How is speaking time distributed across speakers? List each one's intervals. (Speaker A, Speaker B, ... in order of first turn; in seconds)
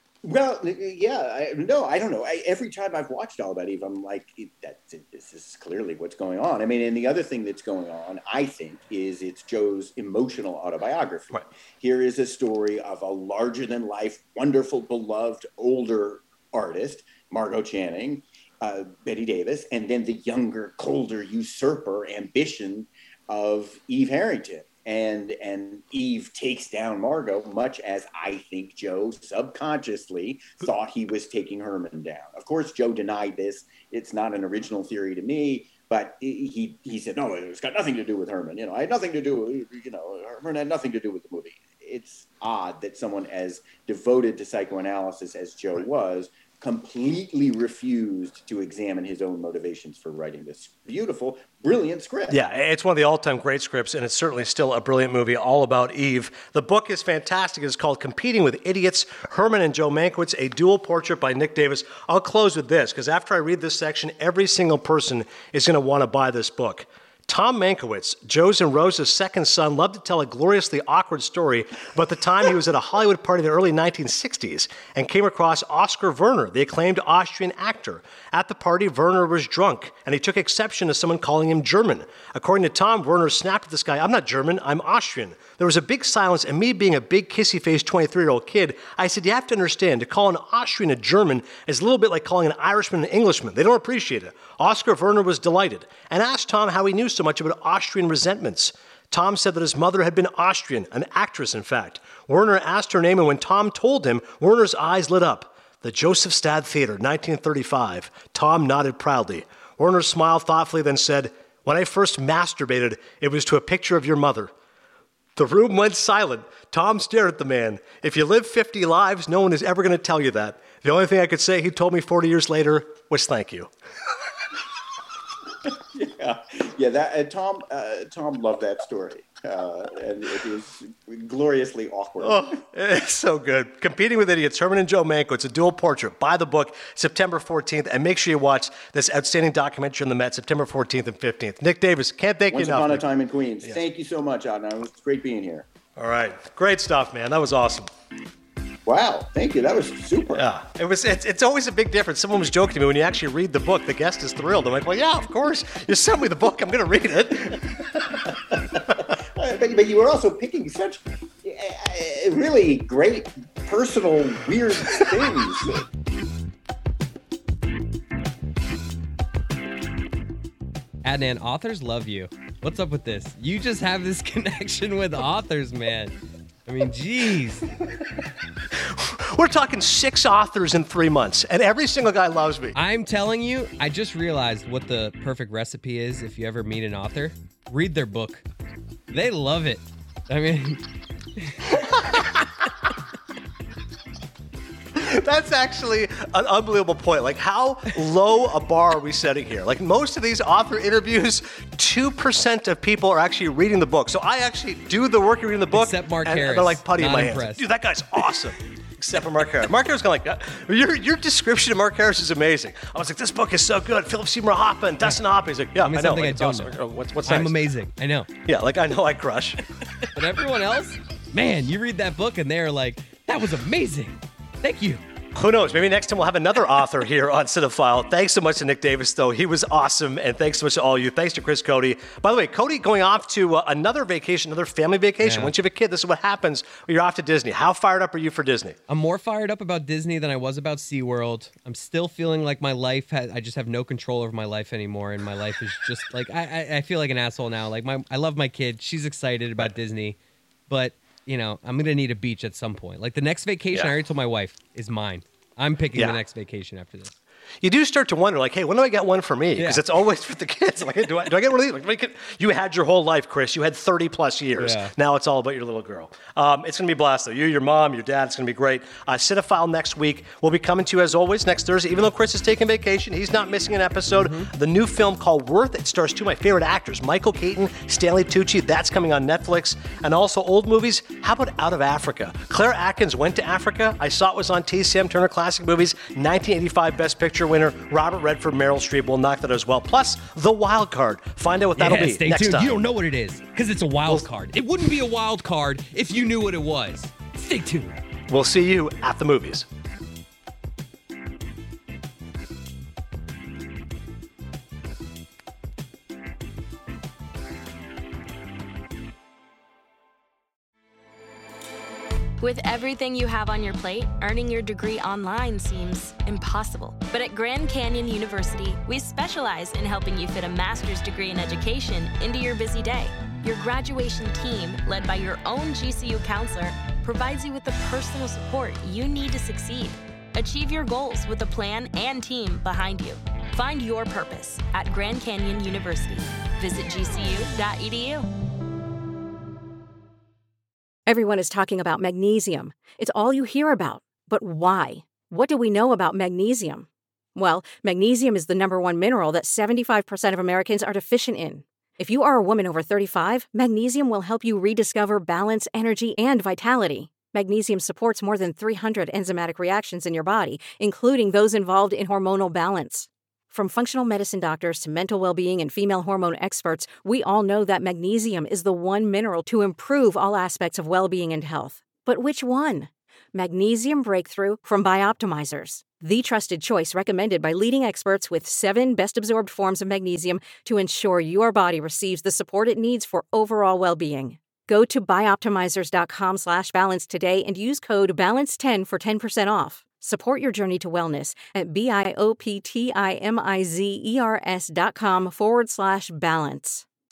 Speaker A: 0.2-52.4, 125.9-132.6, 142.5-145.7, 148.8-150.4, 159.0-165.8
Speaker B: 52.3-114.5, 115.3-123.7, 132.2-143.0, 145.9-147.9, 150.3-158.2, 178.7-182.8, 194.9-217.6, 218.4-219.6, 225.3-238.8, 257.6-292.8, 298.3-299.7
Speaker C: 171.0-176.1, 176.7-177.7, 182.7-188.4, 189.1-190.8, 191.4-192.3, 205.7-207.6, 215.8-218.3, 220.0-225.0, 235.2-235.5, 238.9-250.2, 250.7-257.1, 259.6-259.8, 264.6-264.9, 274.1-274.5, 291.8-297.9
Speaker D: 312.4-338.3
Speaker E: 341.1-396.8